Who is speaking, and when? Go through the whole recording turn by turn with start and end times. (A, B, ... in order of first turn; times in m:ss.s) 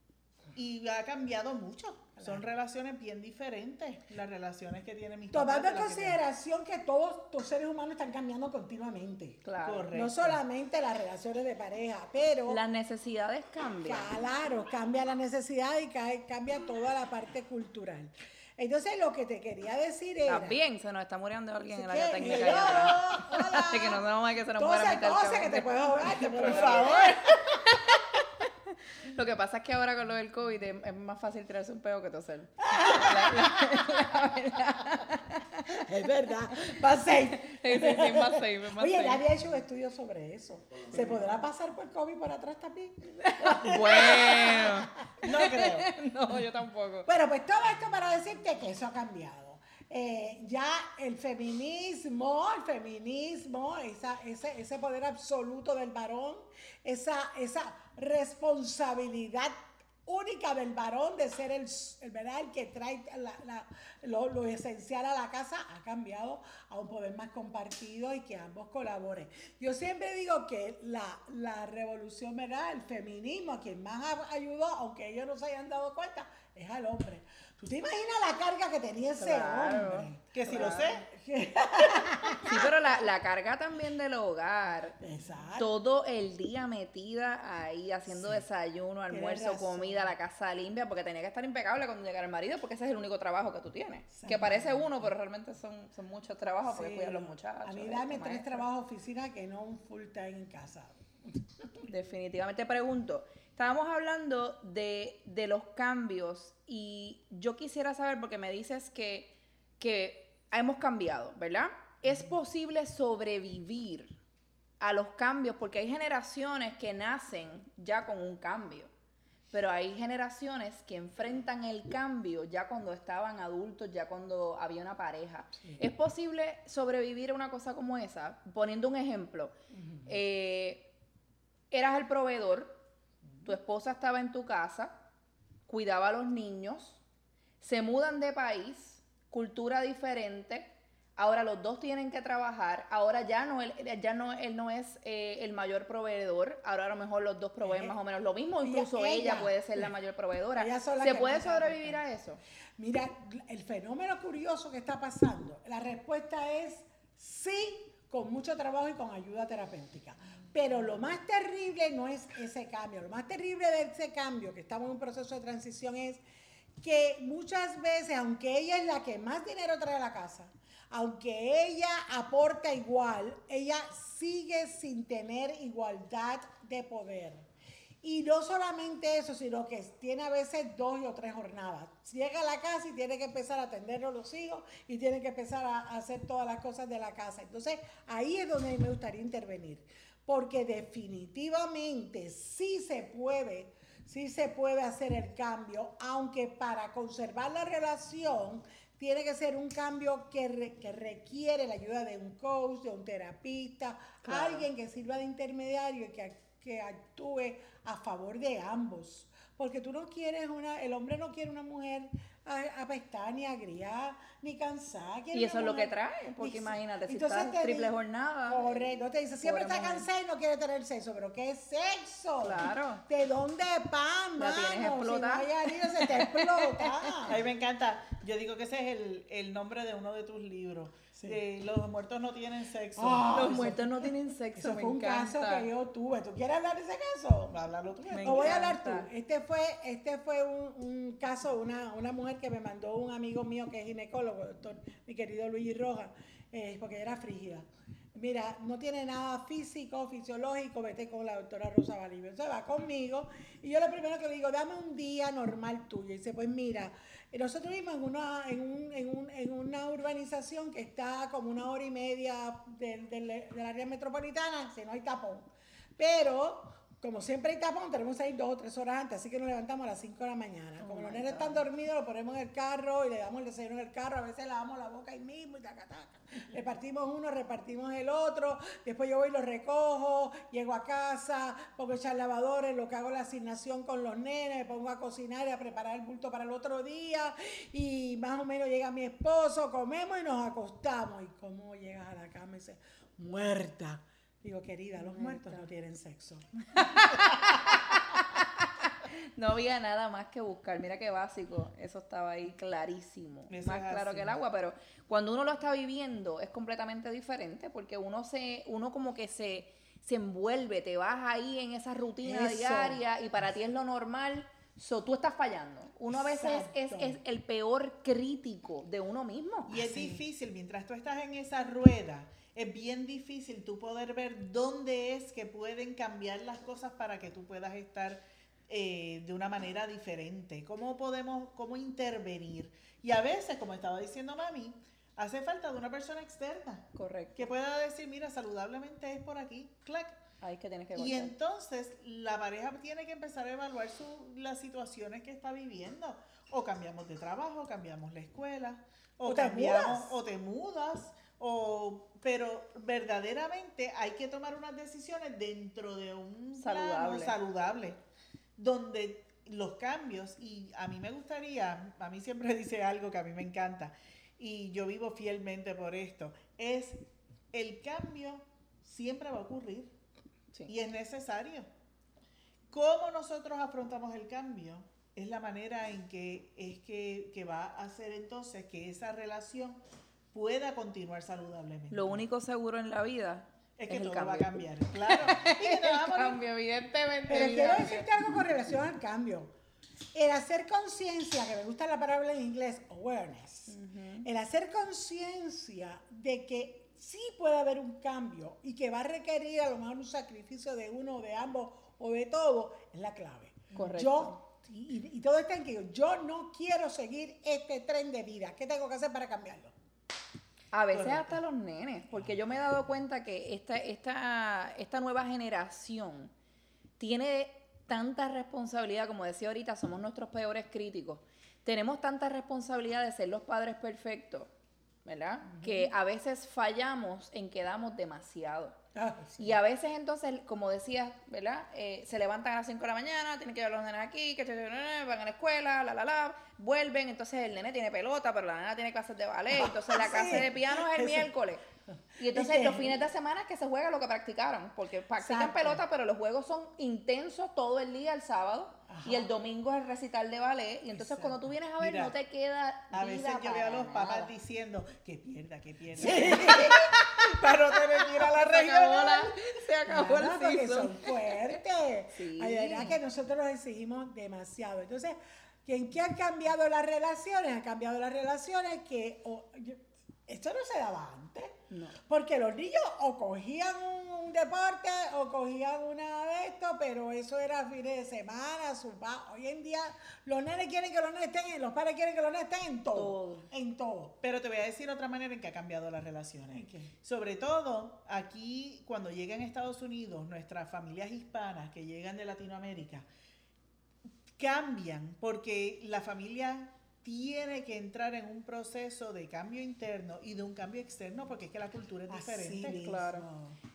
0:00.5-0:06.2 A
0:02.2-0:02.5 B
0:05.3-0:12.6 B
0:09.4-0:09.9 C
0:09.6-0:10.4 A
0:12.5-0:14.1 C
0:13.8-0:20.6 B
0:20.3-0:27.1 C
0:21.7-0:24.0 B
0:22.2-0:23.0 A
0:24.5-0:27.2 B
0:26.2-0:27.4 A
0:27.6-0:28.0 C
0:29.0-0:35.8 C
0:32.6-0:33.8 B
0:35.7-0:45.0 B
0:37.3-0:39.2 C
0:43.2-0:47.1 C
0:45.2-0:45.9 A
0:47.0-1:22.7 B
1:19.2-1:20.9 C
1:20.3-1:21.0 A
1:22.0-1:22.3 A
1:22.4-1:25.0 C
1:25.0-1:25.7 B
1:25.6-1:38.6 C
1:28.1-1:28.4 B
1:29.1-1:30.1 B
1:34.1-1:35.1 B
1:36.6-1:41.8 B
1:41.8-1:54.2 C
1:54.8-1:58.9 C
1:59.5-2:09.5 C
2:09.8-2:10.1 B
2:10.0-2:10.9 C
2:11.7-2:12.8 C
2:13.4-2:15.0 C
2:15.7-2:17.0 C
2:17.6-2:32.4 C
2:27.6-2:28.0 B
2:28.6-2:29.9 B
2:30.5-2:32.0 B
2:32.8-2:46.2 B
2:46.8-2:57.5 B
2:58.0-3:37.9 B
3:24.2-3:24.7 C
3:35.3-3:40.1 C
3:38.4-3:47.4 B
3:42.4-3:43.0 C
3:44.4-3:47.3 C
3:47.3-3:53.6 A
3:53.0-3:57.6 B
3:53.3-3:55.7 C
3:57.5-3:58.6 A
3:58.1-3:59.1 C
3:58.2-4:56.5 B
4:30.8-4:31.6 C
4:55.0-4:55.5 C
4:56.7-5:19.8 C
5:03.5-5:04.4 A
5:12.2-5:13.0 B
5:16.1-5:17.2 B
5:19.7-5:40.2 A
5:19.8-5:20.2 B
5:36.9-5:37.5 C
5:40.4-5:41.3 C
5:41.0-5:58.0 A
5:49.2-5:50.2 B
5:56.6-5:57.3 C
5:58.6-6:07.0 A
6:07.5-6:09.9 A
6:10.7-6:11.7 A
6:12.7-6:19.8 A
6:20.3-6:22.2 A
6:21.9-6:28.1 C
6:23.8-6:26.4 A
6:27.3-6:29.5 B
6:30.1-6:49.7 B
6:33.7-6:34.3 C
6:43.7-6:44.4 C
6:50.7-6:56.3 C
6:50.9-6:51.4 A
6:57.0-7:04.5 C
7:05.0-7:08.8 C
7:05.5-7:05.9 B
7:08.9-7:09.6 B
7:09.4-7:21.6 C
7:19.5-7:21.3 B
7:22.2-7:34.3 C
7:22.3-7:23.0 B
7:25.2-7:25.8 B
7:28.9-7:29.3 B
7:31.0-7:32.1 A
7:32.9-7:39.4 A
7:36.0-7:36.8 B
7:36.0-7:41.6 C
7:39.9-8:04.1 B
7:42.1-7:43.0 C
7:51.7-7:52.0 C
8:02.9-8:03.5 C
8:04.2-8:13.0 A
8:06.5-8:06.9 B
8:14.4-8:22.8 A
8:22.1-8:23.6 B
8:22.7-8:23.2 C